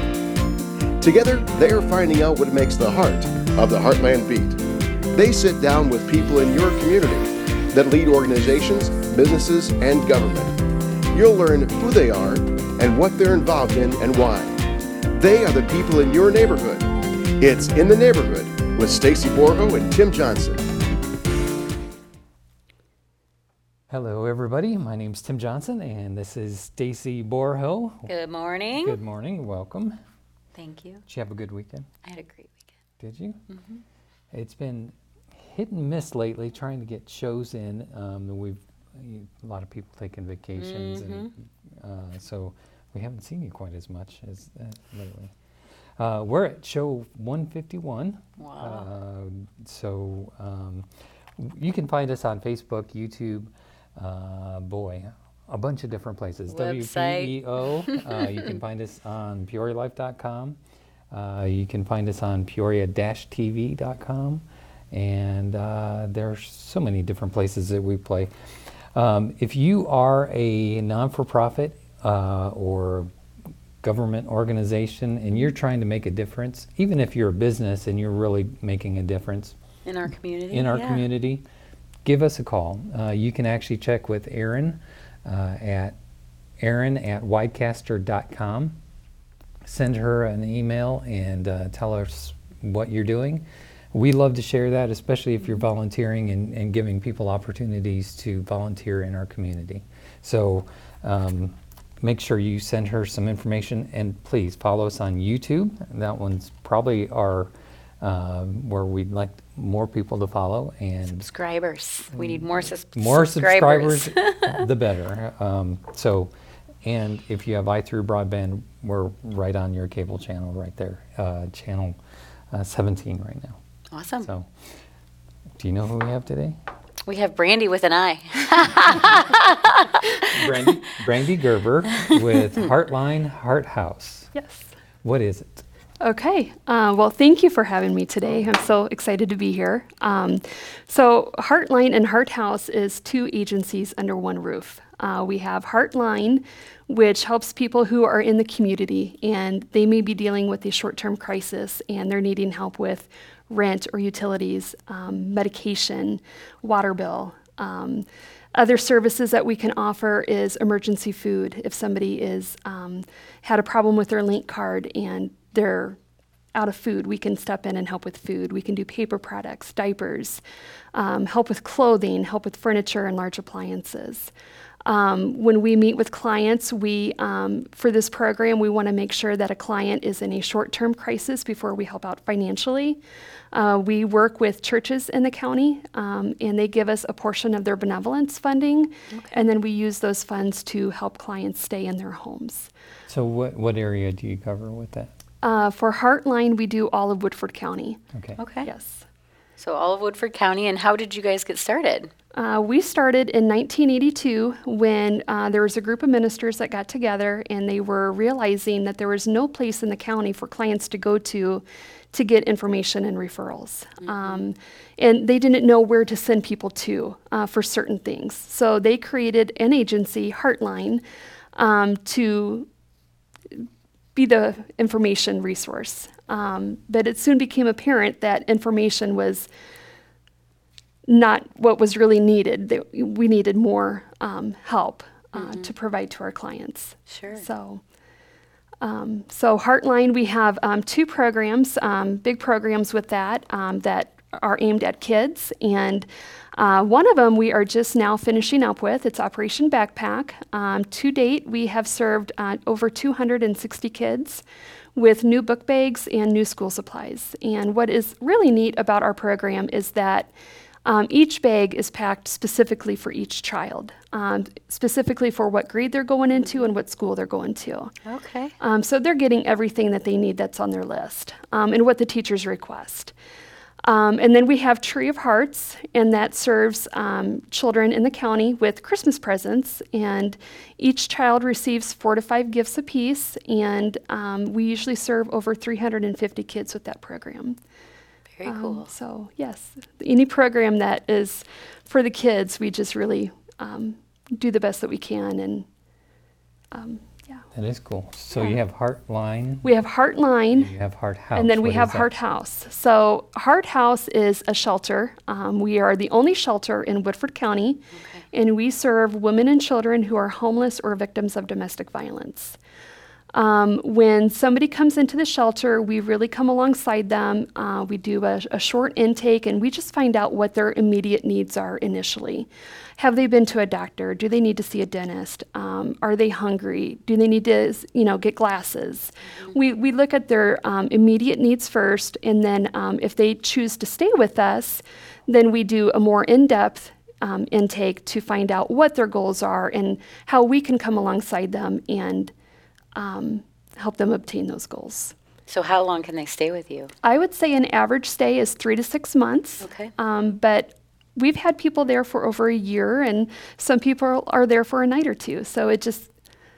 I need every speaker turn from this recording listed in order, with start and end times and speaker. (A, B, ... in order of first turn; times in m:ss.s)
0:01.0-0:04.6 A
0:05.1-0:10.6 A
0:11.1-0:14.5 A
0:15.1-0:16.9 A
0:17.4-0:20.6 A
0:23.9-0:28.1 B
0:28.1-0:29.0 C
0:28.7-0:29.9 B
0:30.5-0:31.0 C
0:31.1-0:31.9 B
0:32.0-0:32.6 C
0:33.0-0:33.4 B
0:33.5-0:33.8 C
0:34.3-0:45.3 B
0:40.5-0:41.3 C
0:46.0-0:50.9 B
0:48.4-0:48.9 C
0:51.4-1:00.6 B
0:56.5-0:58.4 C
1:01.1-1:08.3 B
1:08.9-1:13.1 B
1:13.8-1:19.6 B
1:19.8-1:21.0 C
1:20.5-1:21.4 B
1:22.0-1:26.0 B
1:26.6-1:28.7 B
1:29.6-1:51.3 B
1:51.1-1:54.6 C
1:52.1-1:56.3 B
1:56.8-2:02.0 B
2:02.5-2:03.6 B
2:03.9-2:04.3 C
2:04.2-2:04.5 B
2:05.6-2:06.6 B
2:07.1-2:10.2 C
2:10.2-2:14.3 B
2:14.3-2:14.7 D
2:15.0-2:15.6 B
2:16.0-2:46.0 D
2:46.5-2:50.4 D
2:50.9-2:54.3 D
2:54.8-3:03.0 D
3:03.5-3:12.7 D
3:13.1-3:15.1 B
3:15.4-3:18.0 D
3:18.1-3:18.4 B
3:18.4-3:18.7 C
3:18.6-3:19.0 D
3:19.6-3:22.1 C
3:22.3-3:41.0 D
3:34.0-3:34.4 C
3:41.6-3:42.7 D
3:44.1-3:49.5 D
3:51.0-3:57.8 D
3:55.4-3:55.7 C
3:57.1-3:57.4 C
3:58.8-4:14.4 D
4:14.9-4:20.3 D
4:20.8-4:27.9 D
4:28.0-4:28.5 C
4:28.6-4:33.1 D
4:33.8-4:47.6 D
4:48.4-4:48.9 C
4:48.4-4:55.6 D
4:56.7-4:57.4 D
4:57.5-4:59.7 B
4:59.6-5:00.7 D
5:00.5-5:02.1 B
5:01.3-5:12.6 D
5:08.0-5:08.2 C
5:13.3-5:42.3 D
5:42.9-5:45.1 D
5:45.5-5:46.9 C
5:47.0-5:56.1 D
5:49.6-5:49.9 C